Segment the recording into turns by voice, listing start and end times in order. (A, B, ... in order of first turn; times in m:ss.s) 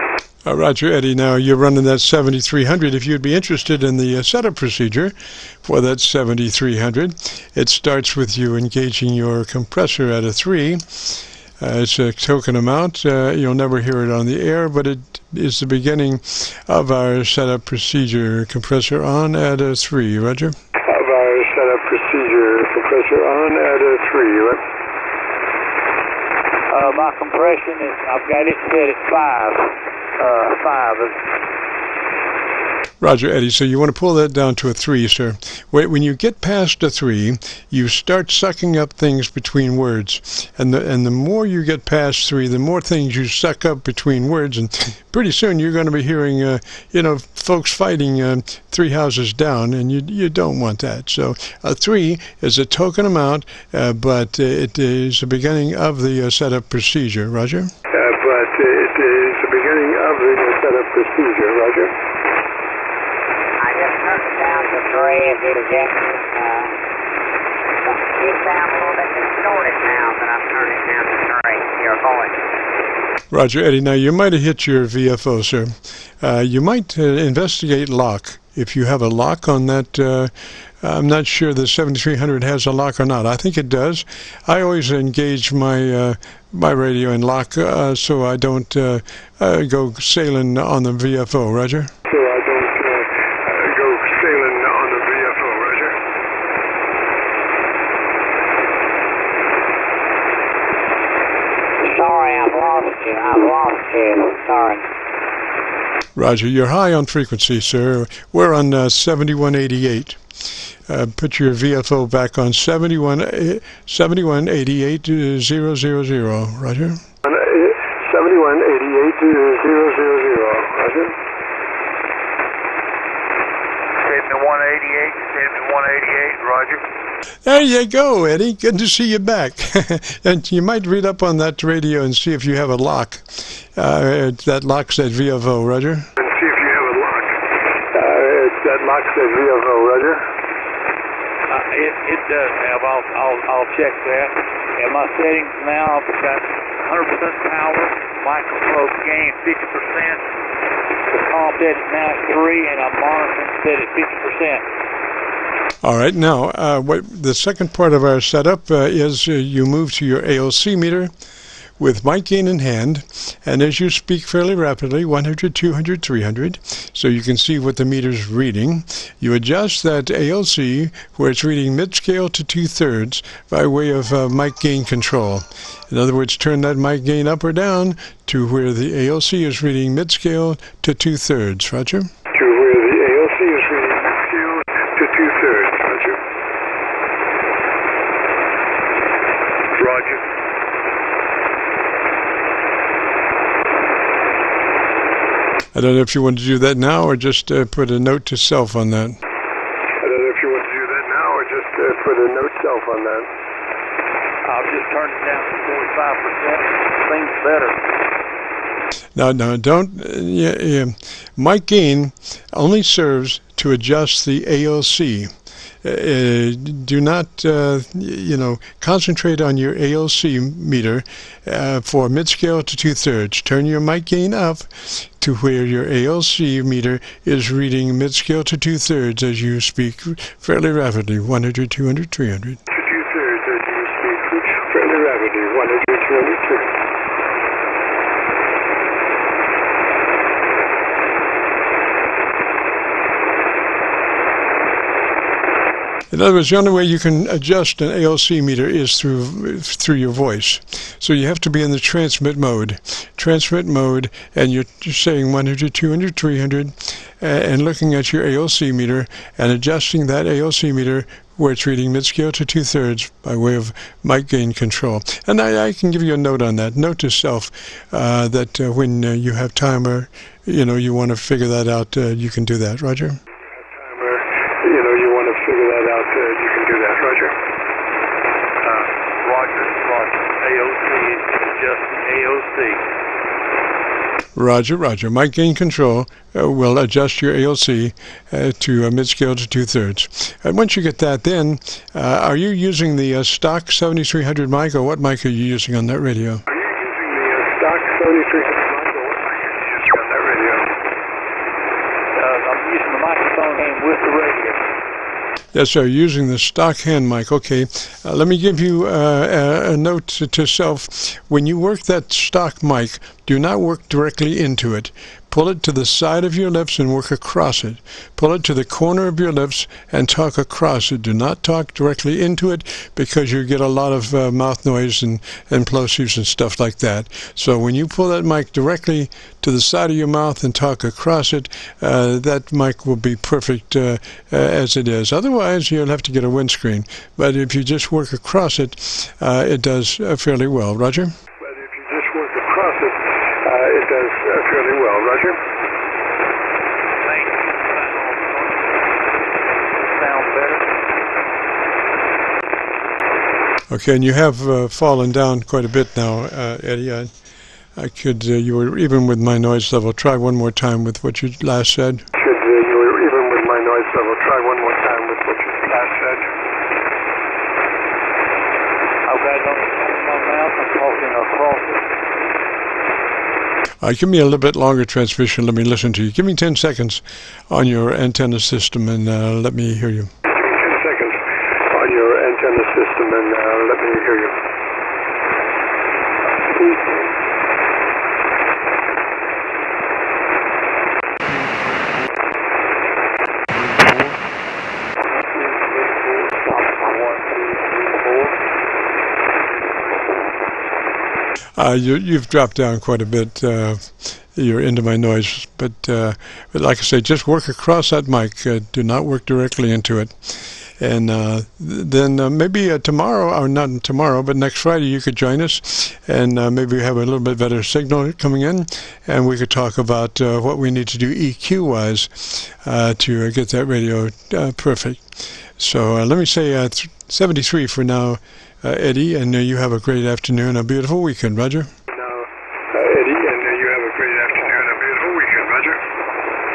0:00.4-0:20.6 A
0:20.9-0:24.6 B
0:26.7-0:31.2 C
0:33.0-0:57.7 A
0:57.9-1:02.0 B
1:03.6-1:06.8 D
1:07.8-1:12.4 D
1:13.3-1:31.9 A
1:32.1-1:36.0 B
1:41.8-1:44.8 C
1:46.2-1:50.2 A
1:50.9-1:57.0 A
1:57.2-2:01.2 B
2:04.0-2:06.8 C
2:07.4-2:16.1 A
2:16.2-2:17.4 B
2:17.9-2:20.2 B
2:21.5-2:30.2 C
2:31.1-2:34.6 C
2:35.8-2:41.1 A
2:41.8-3:02.1 A
3:02.3-3:06.2 B
3:09.7-3:10.2 B
3:15.7-3:19.2 A
3:20.0-3:23.3 B
3:24.4-3:27.8 C
3:29.2-3:35.3 A
3:35.8-3:52.6 A
3:52.7-3:56.7 B
4:06.1-4:33.2 A
4:33.4-4:37.4 B
4:38.6-4:42.8 C
4:44.4-4:56.4 A
4:56.5-5:00.7 B
5:02.2-5:04.7 C
5:05.5-5:41.1 A
5:41.4-5:45.4 B
5:47.0-5:48.8 C
5:49.7-5:50.7 C
5:53.7-5:57.1 A
5:57.8-6:02.0 A
6:02.2-6:06.3 B
6:09.0-6:11.9 C
6:13.8-6:20.1 A
6:20.3-6:24.4 B
6:26.4-6:27.1 C
6:35.1-6:38.4 C
6:41.6-7:05.0 A
7:05.6-7:11.7 A
7:11.9-7:15.8 B